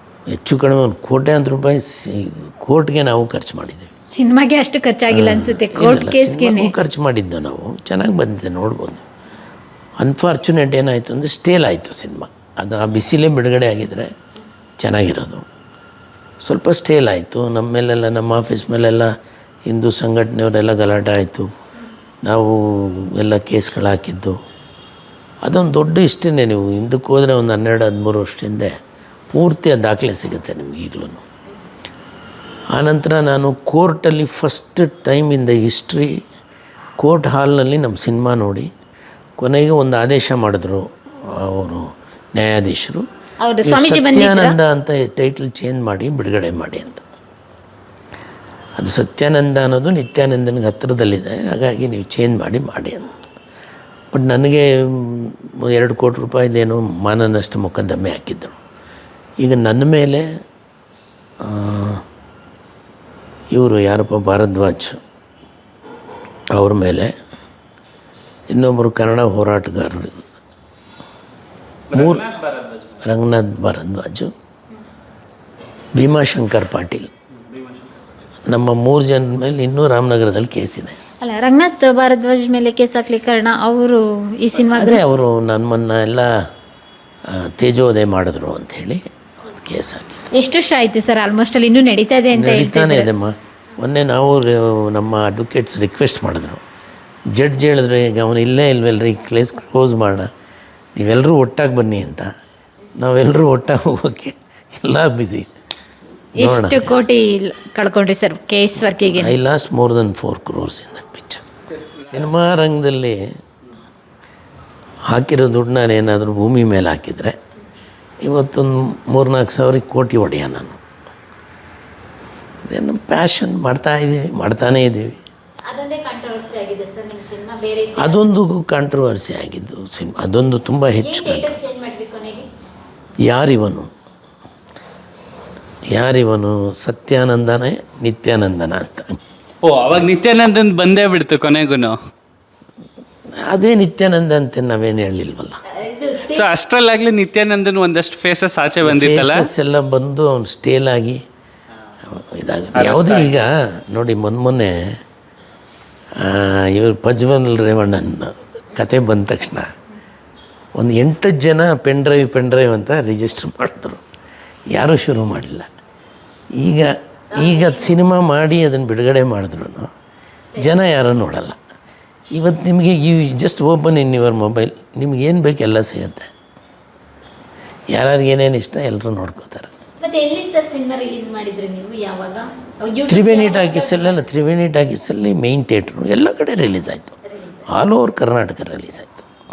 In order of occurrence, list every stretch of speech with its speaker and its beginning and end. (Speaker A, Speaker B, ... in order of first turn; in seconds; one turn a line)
Speaker A: 0.3-3.9
Speaker B: 4.1-6.7
Speaker A: 5.1-9.0
Speaker A: 10.0-14.1
Speaker A: 14.8-15.4
Speaker A: 16.4-19.1
Speaker A: 19.7-21.5
Speaker A: 22.2-24.4
Speaker A: 25.4-28.7
Speaker A: 29.3-31.2
Speaker A: 32.7-36.1
Speaker A: 37.0-38.7
Speaker A: 39.4-43.0
Speaker B: 43.4-44.5
Speaker A: 43.6-47.0
Speaker A: 48.8-53.1
Speaker A: 54.1-58.6
Speaker A: 59.4-60.2
Speaker A: 61.4-62.0
Speaker A: 63.5-65.0
Speaker A: 66.5-67.1
Speaker A: 68.5-70.3
Speaker A: 71.9-72.3
Speaker C: 72.0-72.8
Speaker A: 73.0-74.3
Speaker A: 76.0-77.1
Speaker A: 78.5-81.0
Speaker B: 81.2-85.0
Speaker A: 84.7-86.3
Speaker A: 87.3-90.3
Speaker B: 90.3-93.1
Speaker A: 92.3-96.6
Speaker A: 97.3-100.3
Speaker A: 100.9-102.3
Speaker A: 103.0-105.5
Speaker A: 106.4-107.0
Speaker B: 106.4-109.3
Speaker A: 109.1-113.3
Speaker A: 115.1-117.3
Speaker A: 118.2-120.8
Speaker A: 122.7-125.2
Speaker B: 125.7-128.2
Speaker A: 128.0-131.6
Speaker B: 131.0-132.5
Speaker A: 133.2-133.9
Speaker A: 135.9-139.2
Speaker C: 139.6-141.9
Speaker A: 143.4-145.6
Speaker B: 145.8-146.4
Speaker C: 146.1-149.5
Speaker A: 148.8-151.2
Speaker A: 152.0-154.8
Speaker C: 152.7-153.4
Speaker A: 156.2-159.7
Speaker A: 160.8-164.0
Speaker A: 164.7-165.7
Speaker A: 166.6-169.9
Speaker B: 167.4-167.7
Speaker A: 170.6-171.6
Speaker A: 172.3-176.3
Speaker A: 177.9-179.7
Speaker B: 180.0-184.1
Speaker A: 183.1-189.2